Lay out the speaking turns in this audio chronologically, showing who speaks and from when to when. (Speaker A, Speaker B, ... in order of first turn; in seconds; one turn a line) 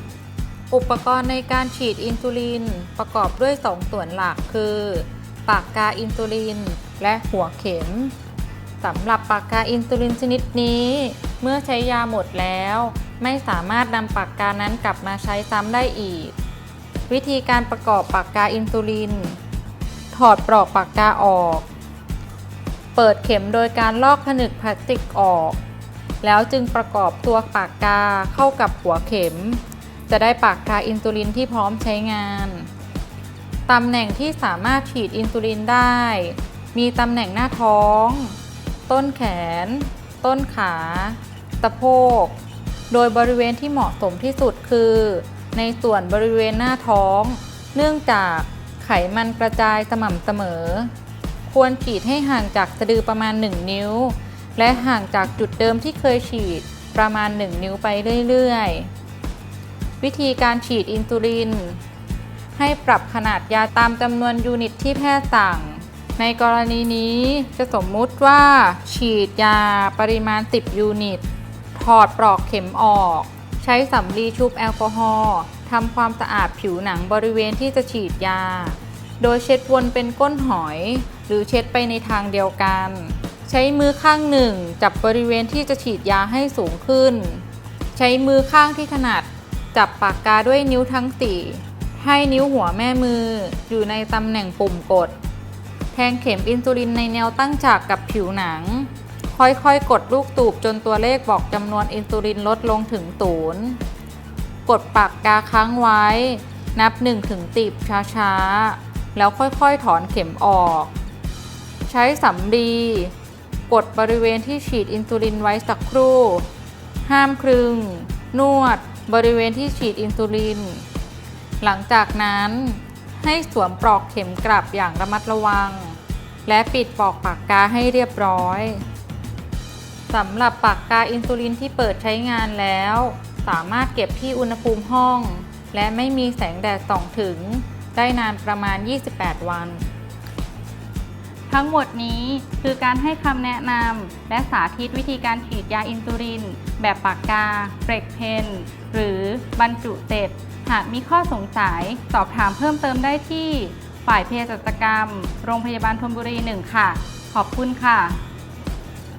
Speaker A: 0.7-8.1
Speaker A: 8.8-16.3
Speaker A: 17.1-19.4
Speaker A: 20.1-21.6
Speaker A: 22.9-25.6
Speaker A: 26.2-32.7
Speaker A: 33.7-38.4
Speaker A: 38.9-42.4
Speaker A: 42.9-50.9
Speaker A: 51.5-58.9
Speaker A: 60.0-61.8
Speaker A: 62.5-95.1
Speaker A: 95.9-103.8
Speaker A: 104.7-110.9
Speaker A: 111.8-113.1
Speaker A: 113.7-116.5
Speaker A: 117.0-120.8
Speaker A: 121.6-128.8
Speaker A: 130.1-139.8
Speaker A: 141.5-158.2